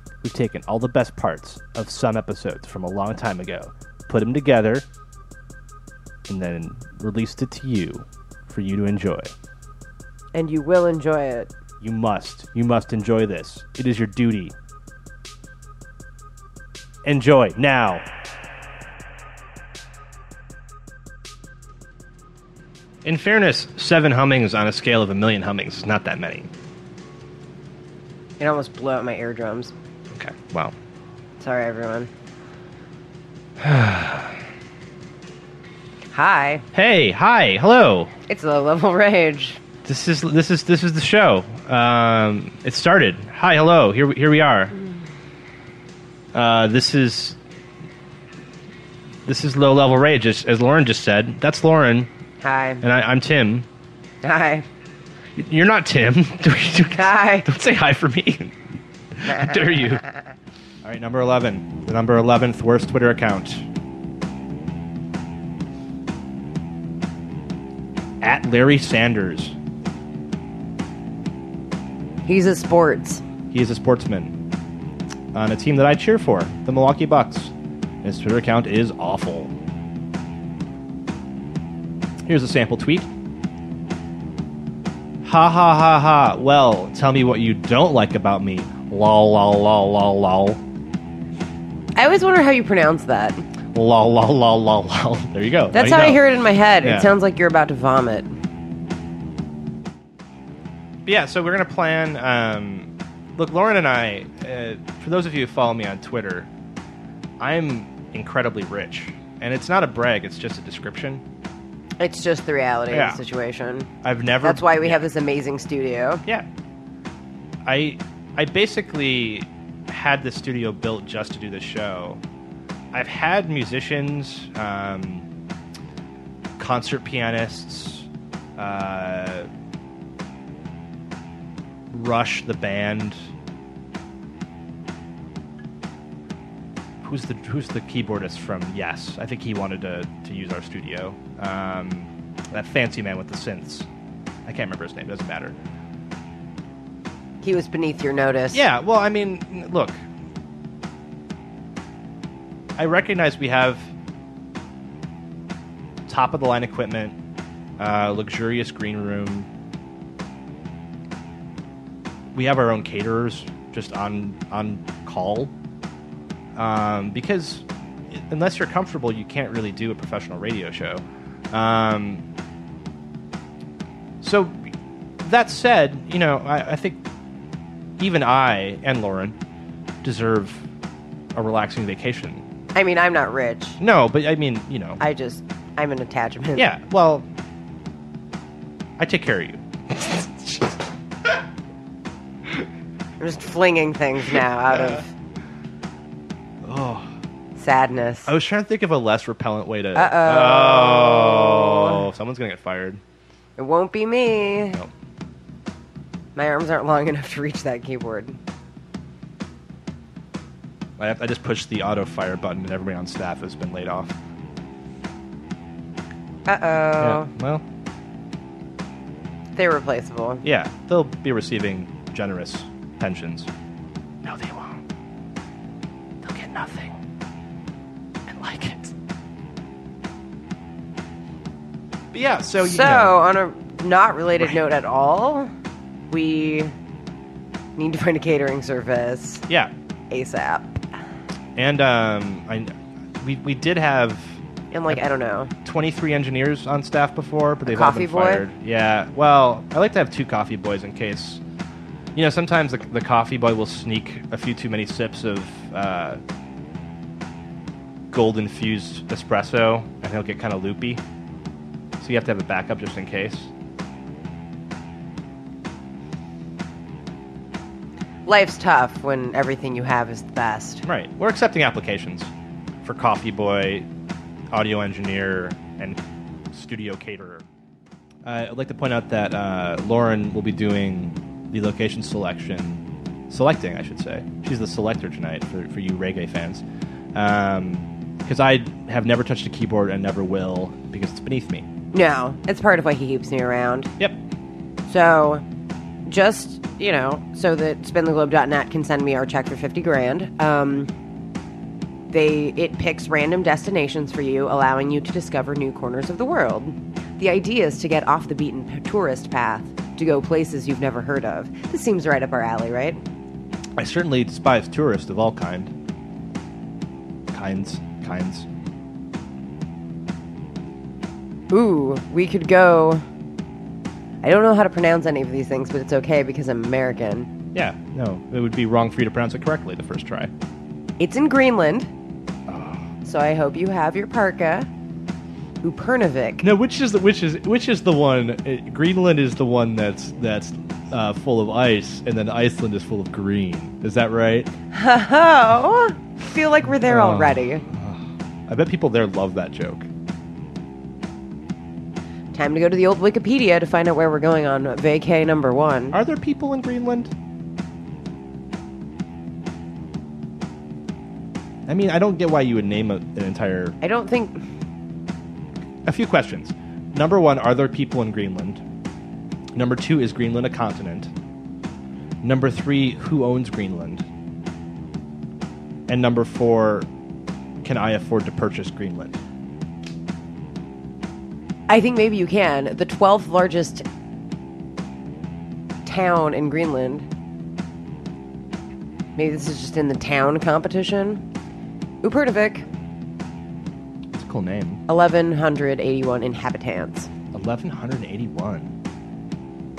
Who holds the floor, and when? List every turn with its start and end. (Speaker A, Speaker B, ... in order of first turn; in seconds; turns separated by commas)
Speaker A: 0.2-4.8, Speaker A: 6.3-9.3, Speaker B: 10.3-11.5, Speaker A: 11.8-14.5, Speaker A: 17.0-18.1, Speaker A: 23.0-26.5, Speaker B: 28.4-29.7, Speaker A: 30.1-30.7, Speaker B: 31.4-32.1, Speaker A: 33.6-34.4, Speaker B: 36.1-36.6, Speaker A: 36.7-38.1, Speaker B: 38.3-39.6, Speaker A: 39.8-44.7, Speaker A: 46.3-47.4, Speaker A: 49.2-52.1, Speaker B: 52.4-52.8, Speaker A: 52.8-53.7, Speaker B: 54.2-54.7, Speaker A: 55.4-58.6, Speaker B: 56.9-57.5, Speaker A: 59.1-60.0, Speaker A: 60.8-63.6, Speaker A: 68.2-69.5, Speaker B: 72.2-73.2, Speaker A: 73.5-74.3, Speaker A: 75.3-79.5, Speaker A: 82.2-83.1, Speaker A: 85.2-90.6, Speaker B: 91.9-93.4, Speaker A: 93.7-96.2, Speaker B: 95.7-98.3, Speaker A: 96.8-97.1, Speaker A: 101.0-106.5, Speaker A: 107.4-111.2, Speaker B: 112.0-113.9, Speaker A: 112.9-113.2, Speaker A: 114.0-115.0, Speaker B: 114.4-116.2, Speaker A: 117.7-122.2, Speaker A: 122.9-125.2, Speaker A: 126.6-129.5, Speaker A: 131.9-133.3, Speaker A: 137.0-143.9, Speaker A: 144.4-145.5, Speaker B: 147.4-148.6, Speaker A: 148.5-150.0, Speaker A: 152.8-153.9, Speaker A: 156.1-157.1, Speaker A: 157.8-159.5, Speaker A: 162.3-165.5, Speaker A: 166.6-172.2, Speaker A: 174.2-177.0, Speaker A: 178.0-179.3, Speaker A: 180.0-180.6, Speaker A: 181.3-182.4, Speaker B: 182.7-183.8, Speaker A: 183.8-185.0, Speaker B: 185.0-186.7, Speaker A: 186.6-187.2, Speaker A: 189.0-190.8, Speaker B: 193.2-195.1, Speaker A: 194.7-195.0, Speaker A: 196.6-197.1, Speaker B: 197.6-198.3, Speaker A: 198.3-203.0, Speaker B: 199.9-202.0, Speaker B: 203.6-204.8, Speaker B: 206.3-208.4, Speaker A: 211.0-214.2, Speaker B: 216.4-217.3, Speaker A: 217.0-217.6, Speaker B: 219.6-220.4, Speaker A: 220.4-223.5, Speaker A: 224.2-224.8, Speaker A: 226.2-226.9, Speaker A: 228.3-228.9, Speaker A: 232.1-233.2, Speaker B: 232.6-235.5, Speaker B: 236.1-236.7, Speaker B: 237.8-239.4, Speaker B: 240.1-240.8, Speaker A: 241.6-245.0, Speaker B: 244.7-245.5, Speaker A: 245.6-251.4, Speaker B: 247.7-248.4, Speaker A: 252.1-256.2, Speaker A: 258.1-261.0, Speaker A: 262.0-263.5, Speaker B: 268.2-270.8, Speaker A: 270.8-272.3, Speaker A: 272.8-273.9, Speaker A: 274.5-276.0, Speaker A: 276.5-277.4, Speaker A: 278.2-291.7, Speaker B: 291.9-293.9, Speaker B: 294.9-295.4, Speaker B: 296.1-300.9, Speaker B: 302.1-313.0, Speaker A: 313.8-315.7, Speaker A: 317.3-318.5, Speaker B: 321.5-323.0, Speaker B: 324.2-327.3, Speaker A: 327.5-330.3, Speaker B: 331.0-331.9, Speaker A: 332.5-332.9, Speaker B: 333.0-334.7, Speaker B: 335.6-336.5, Speaker A: 336.4-344.5, Speaker B: 344.7-347.6, Speaker A: 346.7-349.9, Speaker B: 352.3-356.0, Speaker A: 355.9-357.1, Speaker A: 361.7-363.8, Speaker B: 363.8-364.4, Speaker A: 365.8-368.6, Speaker A: 369.5-371.1, Speaker A: 372.2-374.0, Speaker A: 375.9-376.9, Speaker A: 377.6-379.2, Speaker B: 381.7-383.8, Speaker B: 385.8-387.1, Speaker B: 389.1-391.2, Speaker B: 392.0-392.6, Speaker A: 394.1-394.8, Speaker B: 394.9-397.1, Speaker A: 397.3-398.7